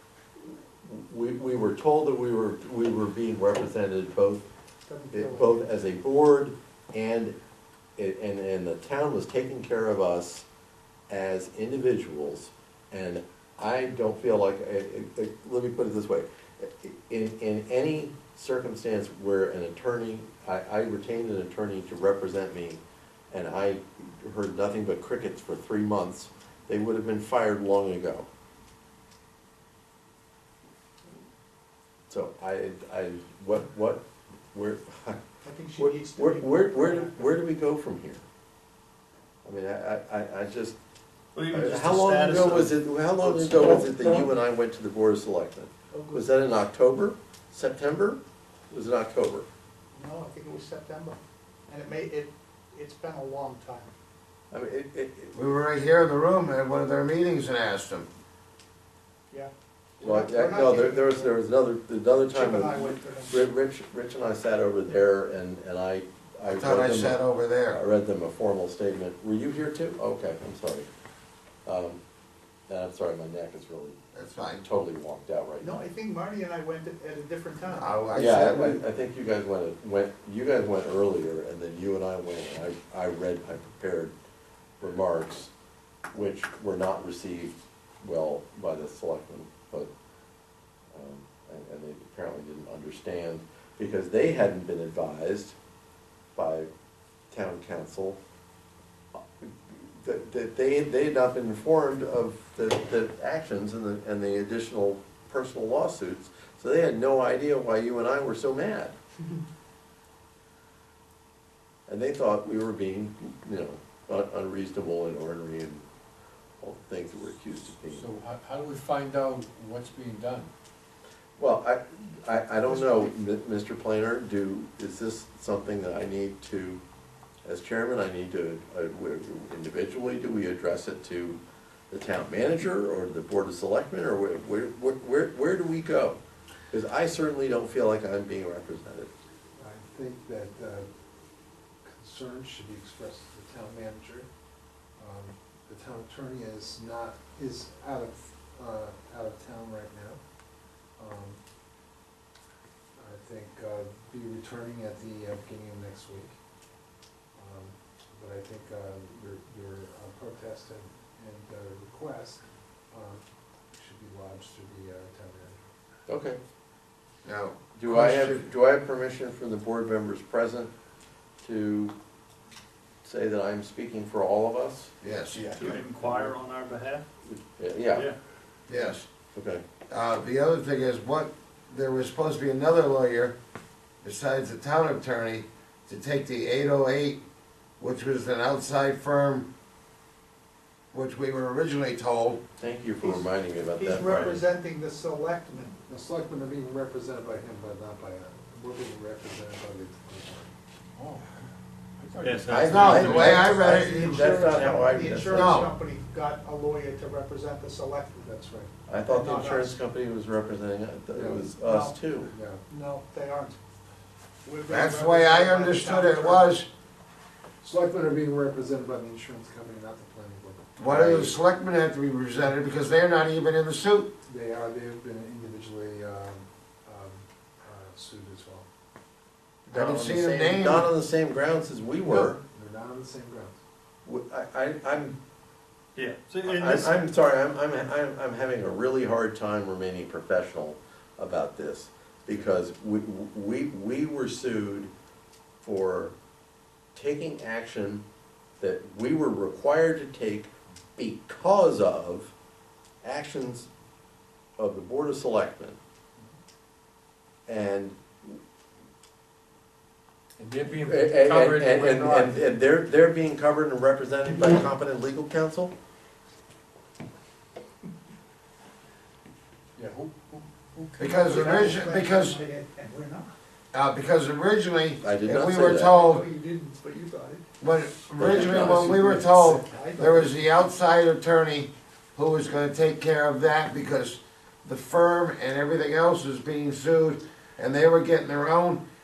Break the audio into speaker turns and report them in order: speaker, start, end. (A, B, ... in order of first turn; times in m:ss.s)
0:00.4-0:04.5 A
0:04.9-0:05.7 B
0:05.1-0:07.3 A
0:08.0-0:10.4 A
0:11.1-0:28.3 A
0:32.1-0:35.2 A
0:35.4-0:37.2 B
0:35.8-0:38.2 A
0:39.4-0:40.8 A
0:41.3-0:42.8 C
0:41.5-0:49.5 A
0:45.9-0:46.3 B
0:49.9-0:51.2 B
0:51.7-0:53.9 B
0:54.5-0:55.3 A
0:55.3-0:58.1 D
0:59.3-1:01.4 B
1:00.0-1:10.9 A
1:02.3-1:03.4 B
1:06.4-1:07.8 D
1:11.6-1:12.0 A
1:12.7-1:14.0 A
1:14.1-1:14.6 D
1:14.6-1:15.8 A
1:15.6-1:18.3 B
1:17.7-1:18.8 D
1:18.2-1:24.1 A
1:24.8-1:25.5 A
1:26.1-1:29.9 A
1:30.9-1:35.6 A
1:36.3-1:36.7 A
1:37.3-1:38.2 A
1:39.4-1:48.9 A
1:51.9-1:55.8 A
1:56.6-1:58.1 A
1:57.9-2:00.5 E
2:01.4-2:06.8 A
2:02.7-2:03.1 E
2:07.4-2:11.4 A
2:11.9-2:16.2 A
2:16.7-2:19.1 A
2:19.6-2:20.9 F
2:21.8-2:24.3 F
2:25.0-2:30.2 F
2:31.0-2:31.4 F
2:33.0-2:36.3 F
2:37.3-2:43.2 F
2:43.7-2:45.7 F
2:46.1-2:46.4 A
2:47.2-2:48.5 D
2:47.8-2:50.7 A
2:51.4-2:51.9 A
2:53.0-2:55.8 A
2:55.0-2:55.4 D
2:55.3-2:57.0 C
2:55.8-2:56.2 E
2:57.2-2:58.1 A
2:58.7-2:59.1 D
2:59.3-2:59.6 A
2:59.9-3:03.4 D
3:04.0-3:07.2 D
3:07.8-3:09.5 D
3:10.9-3:12.4 D
3:12.6-3:14.4 A
3:13.0-3:15.8 B
3:15.9-3:20.5 F
3:21.0-3:21.5 E
3:22.0-3:23.3 E
3:22.2-3:23.6 C
3:22.5-3:24.4 D
3:22.5-3:25.6 A
3:23.4-3:28.3 B
3:25.3-3:25.7 D
3:28.2-3:28.7 F
3:28.9-3:32.3 A
3:29.0-3:29.8 B
3:31.1-3:31.5 F
3:31.6-3:32.0 B
3:32.3-3:32.6 F
3:32.7-3:33.6 B
3:34.4-3:36.6 B
3:34.7-3:36.7 D
3:37.6-3:40.7 F
3:40.8-3:44.1 D
3:40.8-3:41.4 A
3:44.2-3:48.7 F
3:49.7-3:52.4 A
3:49.7-3:50.9 D
3:52.0-3:53.6 F
3:54.0-3:55.2 A
3:56.0-3:57.0 C
3:56.4-4:04.9 A
4:05.6-4:06.1 A
4:06.9-4:08.0 A
4:08.6-4:12.3 A
4:13.0-4:13.7 A
4:14.6-4:15.8 A
4:17.5-4:18.4 A
4:20.4-4:22.4 E
4:20.8-4:25.7 A
4:29.8-4:31.5 E
4:31.0-4:32.4 D
4:31.0-4:33.3 B
4:33.7-4:36.2 D
4:35.0-4:35.9 A
4:35.6-4:37.4 B
4:37.6-4:48.8 D
4:38.2-4:39.2 A
4:38.2-4:40.4 B